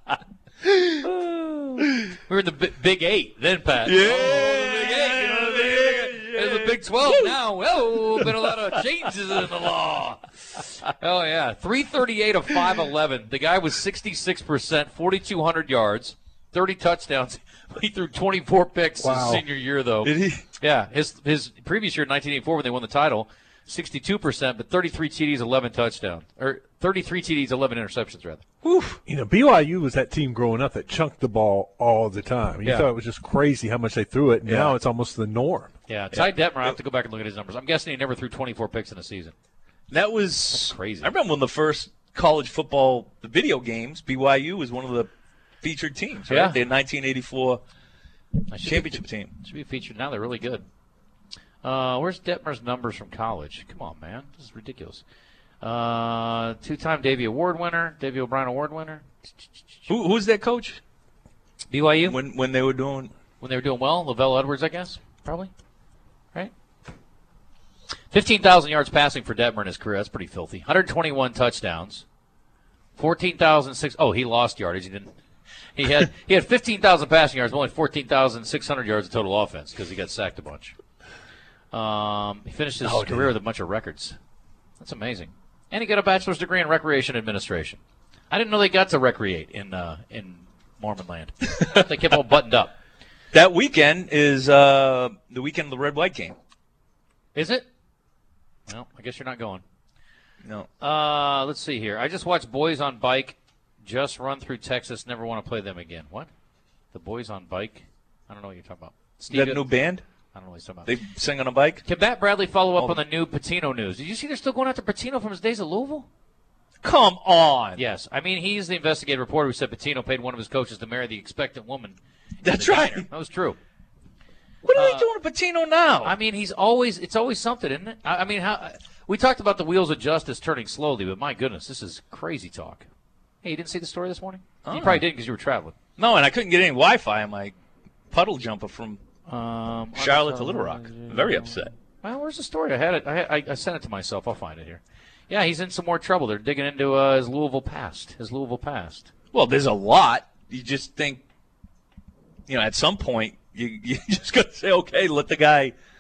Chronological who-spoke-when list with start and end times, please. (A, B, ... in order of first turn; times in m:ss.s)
0:00.6-0:02.1 A
0:02.3-0:28.4 B
0:03.8-0:07.4 A
0:08.2-0:08.5 A
0:19.0-0:19.4 C
0:20.0-0:20.4 A
0:28.6-0:29.0 A
0:29.1-0:35.7 C
0:34.4-0:34.7 A
0:35.9-0:39.3 B
0:36.1-0:36.7 A
0:39.9-0:45.1 A
0:40.5-0:41.1 B
0:45.6-0:47.6 A
0:46.3-0:46.6 B
0:48.5-0:50.6 B
0:48.6-0:49.3 A
0:51.6-0:55.0 B
0:55.6-0:59.1 B
0:59.9-1:00.8 A
1:01.7-1:02.2 B
1:02.0-1:03.1 A
1:03.4-1:05.5 B
1:08.1-1:12.0 B
1:13.0-1:15.1 B
1:15.8-1:20.8 B
1:21.7-1:24.2 B
1:22.8-1:23.3 A
1:24.8-1:27.8 B
1:28.3-1:32.7 B
1:33.3-1:36.4 A
1:37.4-1:37.7 B
1:38.7-1:39.6 B
1:40.8-1:46.3 B
1:46.9-1:49.7 B
1:49.3-1:50.0 A
1:50.3-1:50.9 B
1:50.9-1:51.8 A
1:51.8-1:56.1 B
1:52.8-1:53.0 A
1:56.8-1:57.8 A
1:57.8-2:03.6 B
2:02.4-2:03.1 A
2:04.6-2:06.2 A
2:04.8-2:05.1 B
2:06.0-2:12.9 B
2:13.4-2:15.8 B
2:14.6-2:15.0 A
2:16.0-2:17.6 A
2:18.1-2:19.0 A
2:19.3-2:29.1 B
2:20.0-2:21.7 A
2:29.3-2:31.2 A
2:32.5-2:35.7 A